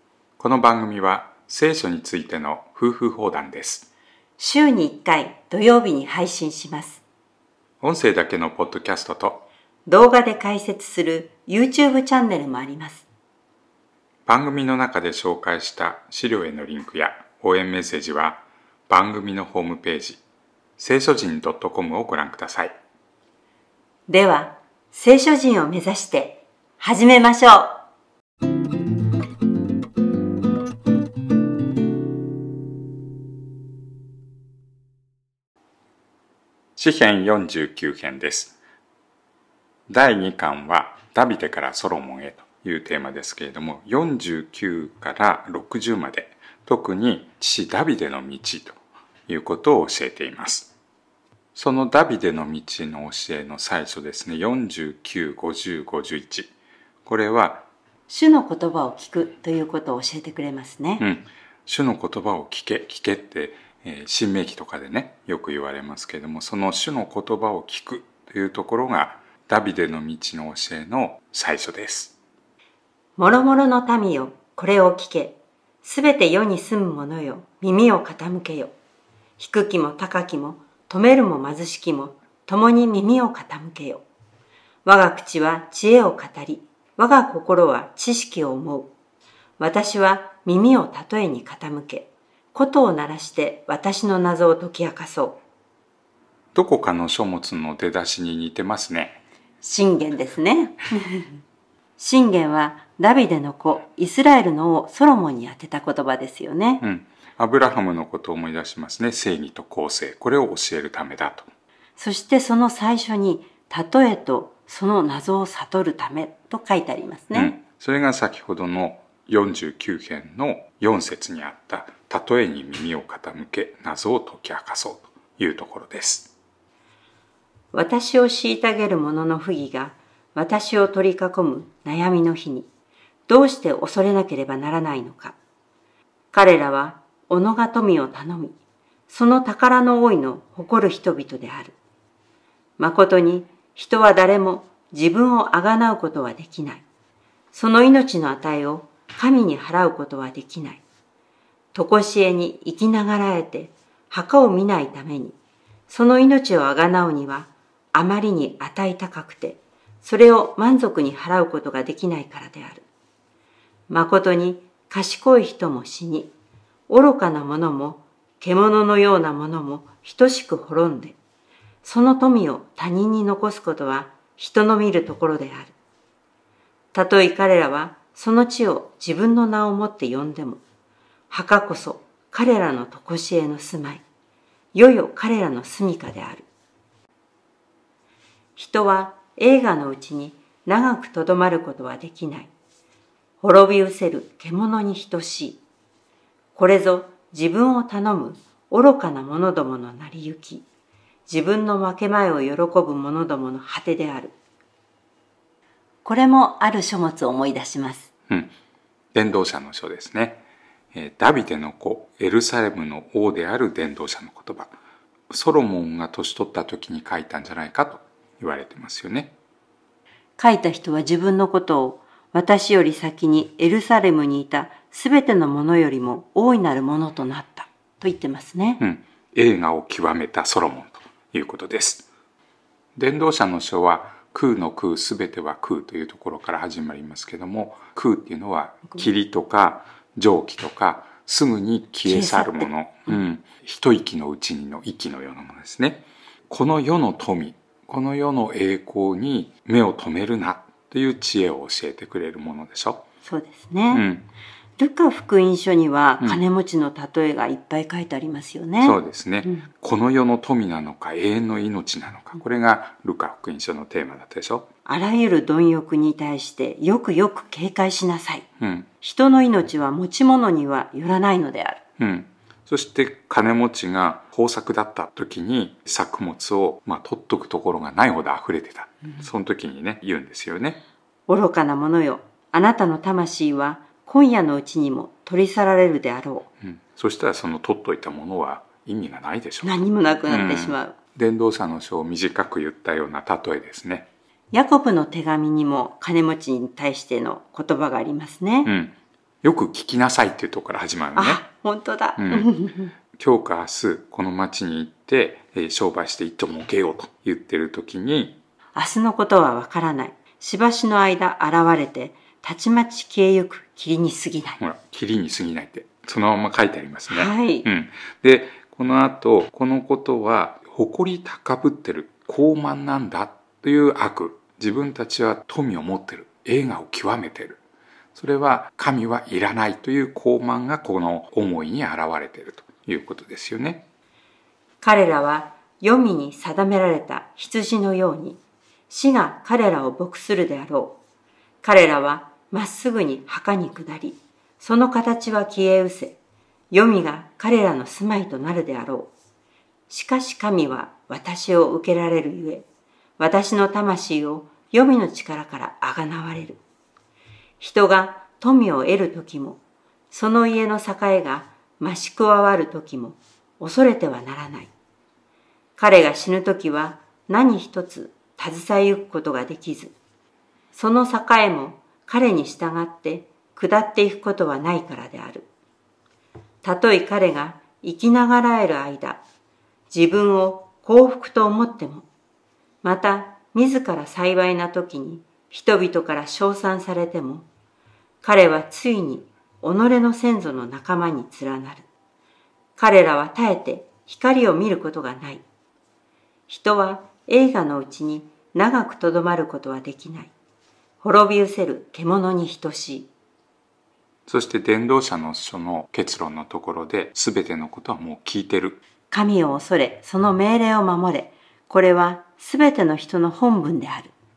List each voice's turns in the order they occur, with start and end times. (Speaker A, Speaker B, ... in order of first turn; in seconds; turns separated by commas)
Speaker A: 0.4-3.9, Speaker B: 4.4-7.0, Speaker A: 7.8-9.5, Speaker B: 9.8-13.1, Speaker A: 14.2-20.2, Speaker A: 20.8-22.7, Speaker B: 24.1-27.8, Speaker A: 36.8-38.5, Speaker A: 39.9-50.7, Speaker A: 51.5-56.5, Speaker A: 57.0-57.7, Speaker B: 58.1-61.0, Speaker A: 61.0-72.1, Speaker B: 73.2-78.7, Speaker B: 79.4-84.0, Speaker B: 84.8-88.9, Speaker B: 89.6-95.4, Speaker A: 96.5-99.2, Speaker B: 99.6-101.4, Speaker B: 102.0-106.8, Speaker A: 106.8-111.5, Speaker B: 112.0-117.5, Speaker A: 117.3-126.3, Speaker B: 127.7-132.7, Speaker B: 133.3-135.3, Speaker B: 136.3-138.6, Speaker B: 139.1-141.8, Speaker B: 142.8-146.8, Speaker B: 147.5-150.8, Speaker B: 151.7-155.3, Speaker B: 155.9-162.9, Speaker B: 163.9-166.3, Speaker B: 166.9-171.2, Speaker B: 171.8-175.7, Speaker B: 176.9-180.6, Speaker B: 181.3-184.0, Speaker B: 184.7-186.5, Speaker B: 188.6-192.5, Speaker B: 193.4-195.6, Speaker B: 196.5-200.7, Speaker B: 201.3-204.3, Speaker B: 206.0-208.1, Speaker A: 208.3-208.5, Speaker A: 209.1-210.4, Speaker A: 210.9-214.8, Speaker A: 215.3-219.3, Speaker B: 220.4-228.8, Speaker A: 228.8-232.1, Speaker A: 232.9-253.0, Speaker B: 242.1-243.2, Speaker B: 253.2-254.0, Speaker A: 253.9-254.3, Speaker B: 254.8-259.7, Speaker A: 258.8-264.7, Speaker B: 264.9-268.4, Speaker A: 268.6-268.9, Speaker B: 269.0-271.8, Speaker A: 272.0-280.8, Speaker B: 281.3-286.5, Speaker A: 286.6-294.1, Speaker B: 289.6-290.9, Speaker B: 294.5-298.7, Speaker A: 298.6-301.4, Speaker B: 301.1-302.9, Speaker A: 302.2-302.5, Speaker A: 303.1-308.4, Speaker B: 308.7-314.6, Speaker A: 314.6-327.6, Speaker B: 317.1-317.7, Speaker A: 328.1-333.8, Speaker B: 334.8-341.0, Speaker B: 341.6-346.2, Speaker B: 346.7-349.1, Speaker B: 349.9-352.6, Speaker B: 353.2-356.6, Speaker B: 357.6-364.7, Speaker B: 365.8-369.9, Speaker B: 370.7-375.5, Speaker B: 376.6-379.2, Speaker B: 379.9-382.1, Speaker B: 382.8-387.5, Speaker B: 388.2-391.9, Speaker B: 392.8-395.4, Speaker B: 396.5-400.3, Speaker B: 401.0-403.1, Speaker A: 404.3-408.8, Speaker B: 409.1-414.1